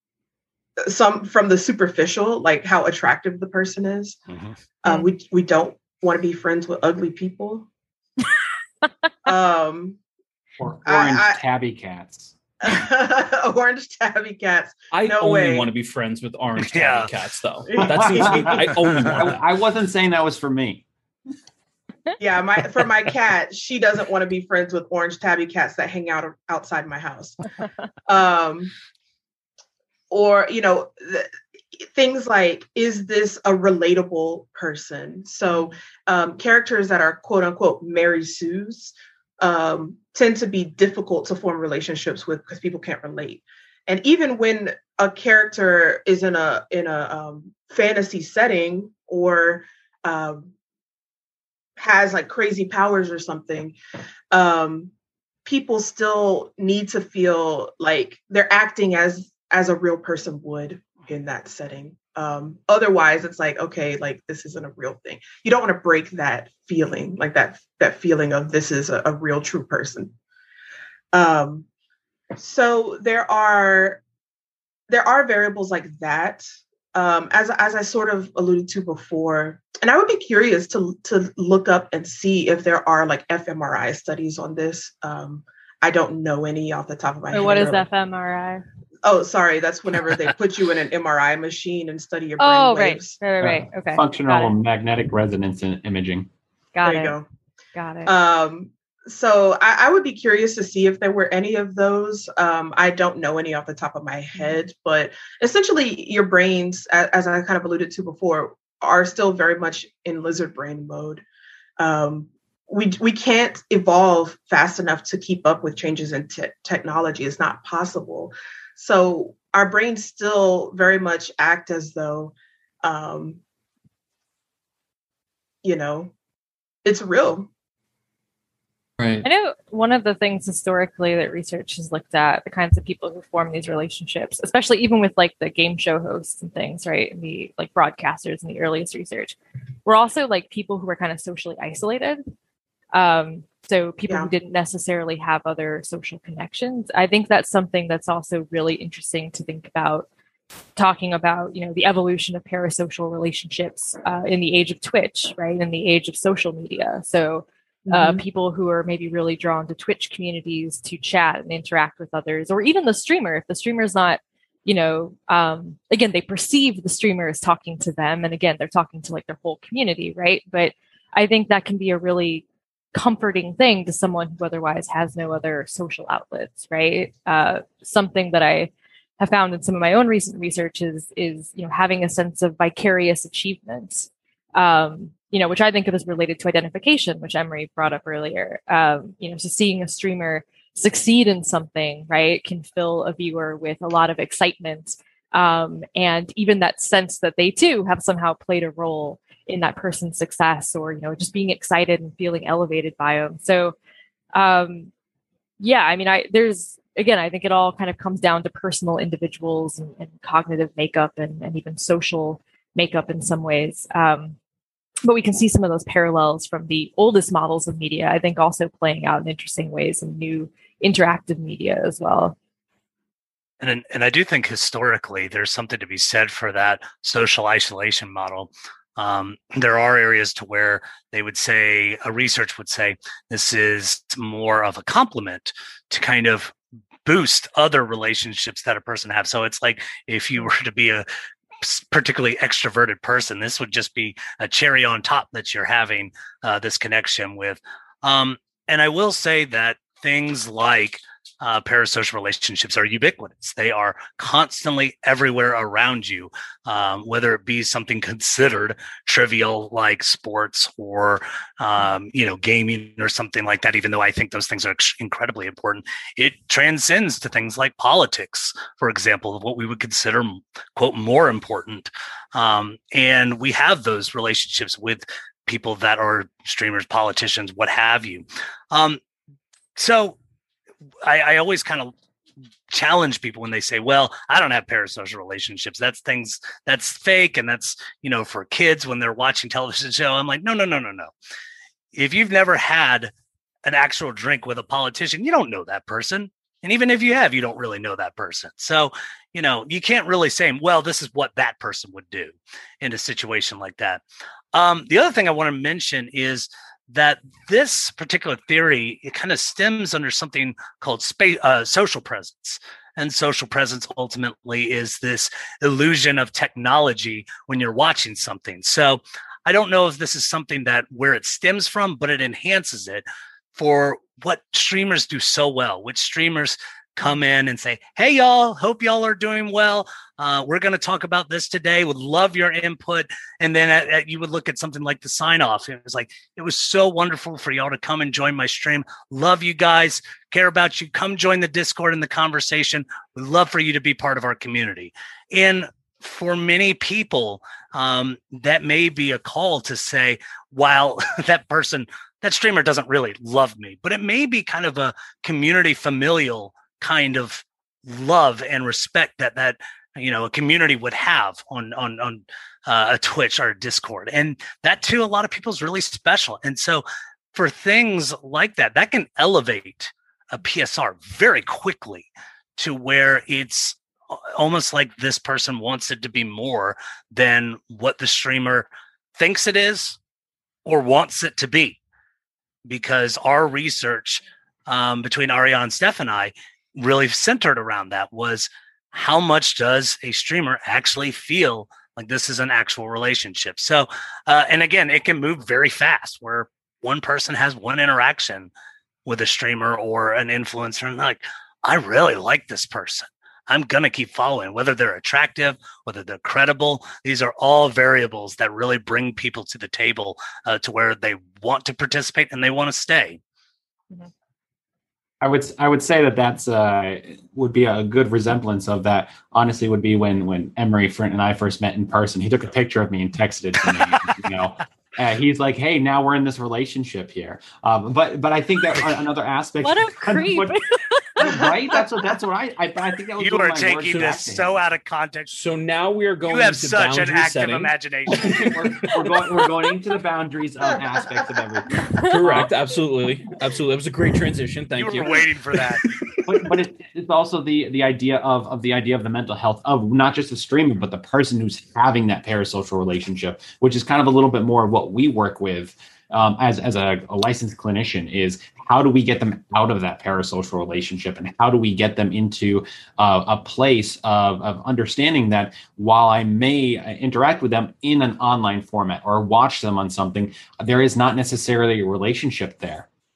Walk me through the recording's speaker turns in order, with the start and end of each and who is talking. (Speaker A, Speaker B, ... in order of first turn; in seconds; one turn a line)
Speaker A: 0.8-4.2
Speaker A: 4.8-7.7
Speaker A: 9.2-10.0
Speaker B: 10.6-12.3
Speaker A: 10.9-11.4
Speaker A: 12.6-15.7
Speaker C: 14.9-19.4
Speaker D: 16.6-17.1
Speaker A: 17.7-18.7
Speaker B: 17.8-20.8
Speaker D: 18.8-19.2
Speaker A: 22.2-27.4
Speaker A: 28.1-28.7
Speaker A: 30.1-31.3
Speaker A: 31.8-50.5
Speaker A: 51.8-53.8
Speaker A: 54.3-54.9
Speaker A: 55.5-70.1
Speaker A: 71.1-71.7
Speaker A: 72.4-74.0
Speaker A: 74.9-87.8
Speaker E: 87.3-88.6
Speaker A: 89.0-93.2
Speaker E: 92.4-94.5
Speaker B: 93.4-96.3
Speaker E: 96.8-97.2
Speaker A: 96.8-97.2
Speaker E: 97.8-98.1
Speaker A: 98.1-111.2
Speaker A: 111.8-123.4
Speaker A: 125.6-126.1
Speaker A: 126.8-127.5
Speaker C: 129.0-129.3
Speaker E: 129.2-142.2
Speaker E: 142.9-150.1
Speaker E: 150.8-203.8
Speaker A: 157.9-158.2
Speaker E: 204.3-204.9
Speaker E: 205.6-214.4
Speaker E: 215.1-222.3
Speaker D: 223.6-241.1
Speaker D: 241.6-279.0
Speaker D: 279.8-280.2
Speaker D: 281.0-281.9
Speaker D: 282.7-291.1
Speaker D: 291.9-293.1
Speaker D: 293.6-304.0
Speaker D: 304.5-380.0
Speaker D: 380.7-381.8
Speaker D: 382.7-398.5
Speaker D: 399.1-413.2
Speaker B: 415.2-430.6
Speaker E: 429.6-431.4
Speaker B: 431.2-434.6
Speaker D: 433.2-435.4
Speaker C: 433.9-434.2
Speaker C: 435.3-439.3
Speaker D: 436.3-438.5
Speaker B: 438.2-442.5
Speaker C: 442.1-446.3
Speaker D: 444.8-445.9
Speaker B: 446.2-472.9